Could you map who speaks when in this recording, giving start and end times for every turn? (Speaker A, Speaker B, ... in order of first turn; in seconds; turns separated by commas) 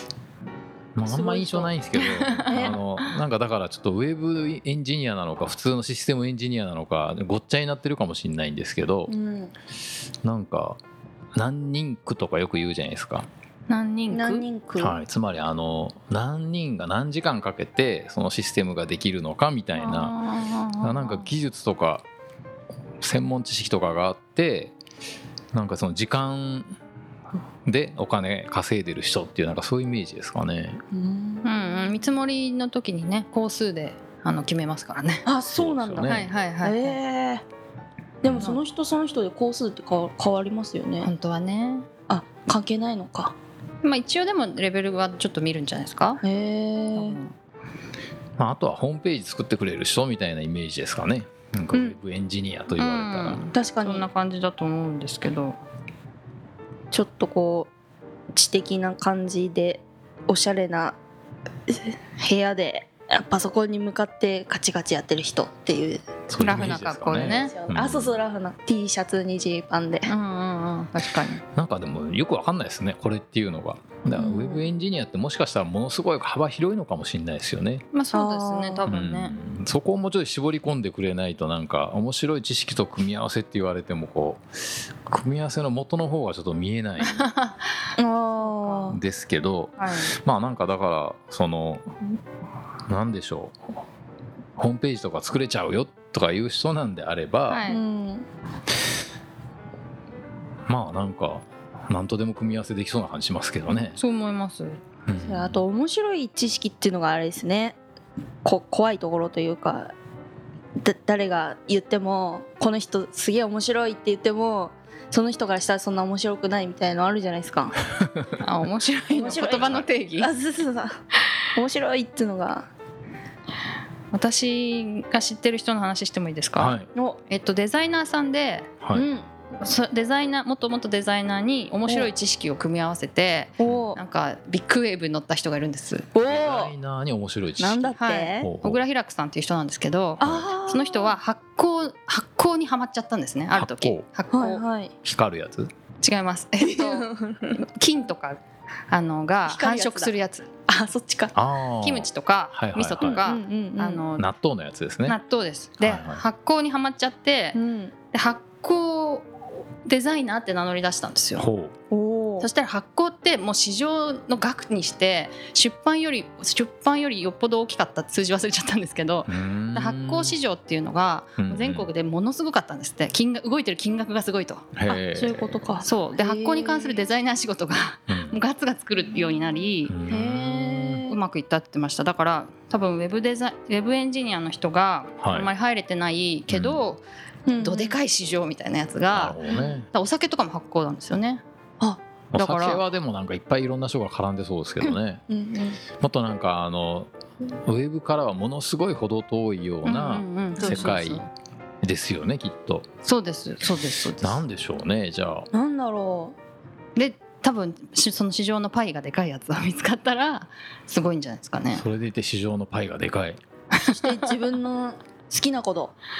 Speaker A: 0.9-9.1, Speaker B: 1.1-1.7, Speaker C: 2.0-2.7, Speaker B: 9.1-9.5, Speaker A: 10.2-10.8, Speaker A: 11.3-13.3, Speaker C: 13.7-14.4, Speaker B: 14.1-14.9, Speaker A: 14.8-20.1, Speaker C: 19.8-21.3, Speaker A: 20.8-22.0, Speaker A: 23.0-24.7, Speaker A: 25.5-26.7, Speaker A: 27.6-30.8, Speaker B: 30.9-31.4, Speaker C: 31.4-35.2, Speaker B: 35.2-36.0, Speaker A: 35.5-36.3, Speaker C: 36.0-37.0, Speaker B: 36.6-37.4, Speaker B: 38.2-41.1, Speaker C: 38.3-38.6, Speaker C: 41.0-41.9, Speaker B: 42.1-43.3, Speaker C: 43.8-46.2, Speaker B: 46.2-47.1, Speaker C: 46.9-47.3, Speaker A: 48.4-53.4, Speaker C: 52.7-55.6, Speaker B: 53.5-54.0, Speaker B: 56.9-57.7, Speaker B: 58.3-61.0, Speaker B: 61.7-66.6, Speaker A: 66.3-68.2, Speaker C: 66.3-67.5, Speaker B: 67.5-70.1, Speaker C: 70.1-71.4, Speaker A: 71.5-77.8, Speaker B: 74.2-74.6, Speaker C: 77.9-79.3, Speaker B: 78.1-78.8, Speaker A: 78.9-84.4, Speaker A: 85.0-87.2, Speaker C: 87.0-89.0, Speaker B: 88.0-89.0, Speaker A: 88.9-92.1, Speaker C: 89.8-90.1, Speaker A: 92.9-93.6, Speaker A: 94.6-97.6, Speaker C: 97.5-97.8, Speaker B: 97.7-98.2, Speaker A: 100.7-104.0, Speaker C: 104.0-104.8, Speaker A: 105.0-105.6, Speaker B: 105.3-107.8, Speaker B: 108.4-109.9, Speaker B: 110.8-117.7, Speaker C: 118.4-120.3, Speaker B: 119.1-120.9, Speaker B: 121.5-122.7, Speaker C: 124.1-126.7, Speaker A: 126.6-126.9, Speaker C: 127.3-128.7, Speaker A: 128.8-129.1, Speaker B: 129.0-129.2, Speaker C: 129.6-136.1, Speaker B: 133.6-134.0, Speaker B: 136.1-136.7, Speaker A: 136.2-138.8, Speaker B: 137.6-138.5, Speaker C: 138.0-144.6, Speaker B: 140.2-141.2, Speaker A: 140.2-140.5, Speaker A: 143.5-144.1, Speaker B: 144.3-144.9, Speaker A: 145.0-145.7, Speaker C: 146.0-150.5, Speaker B: 146.6-147.5, Speaker B: 149.5-150.1, Speaker B: 150.7-151.3, Speaker A: 151.3-153.2, Speaker C: 151.8-154.3, Speaker B: 153.2-154.0, Speaker A: 154.2-155.2, Speaker C: 155.1-157.6, Speaker A: 155.8-156.2, Speaker B: 157.5-157.9, Speaker C: 158.1-159.3, Speaker C: 159.8-161.4, Speaker A: 161.4-161.7, Speaker B: 161.9-162.5, Speaker C: 162.4-174.7, Speaker A: 169.3-170.3, Speaker A: 171.4-171.9, Speaker A: 174.8-175.6, Speaker B: 174.9-176.9, Speaker C: 175.8-179.9, Speaker A: 178.1-178.4, Speaker A: 179.9-181.0, Speaker B: 180.1-181.1, Speaker C: 181.1-187.0, Speaker A: 185.2-185.5, Speaker A: 186.5-186.8, Speaker B: 187.5-187.9, Speaker C: 187.5-191.4, Speaker A: 189.1-189.9, Speaker A: 192.3-195.2, Speaker C: 192.3-192.8, Speaker B: 195.3-195.8, Speaker A: 196.0-201.3, Speaker C: 199.8-201.3, Speaker A: 201.8-202.8, Speaker C: 203.0-204.4, Speaker A: 204.2-205.5, Speaker B: 205.5-206.3, Speaker C: 206.9-211.8, Speaker A: 211.7-213.4, Speaker C: 213.7-214.3, Speaker B: 213.8-215.9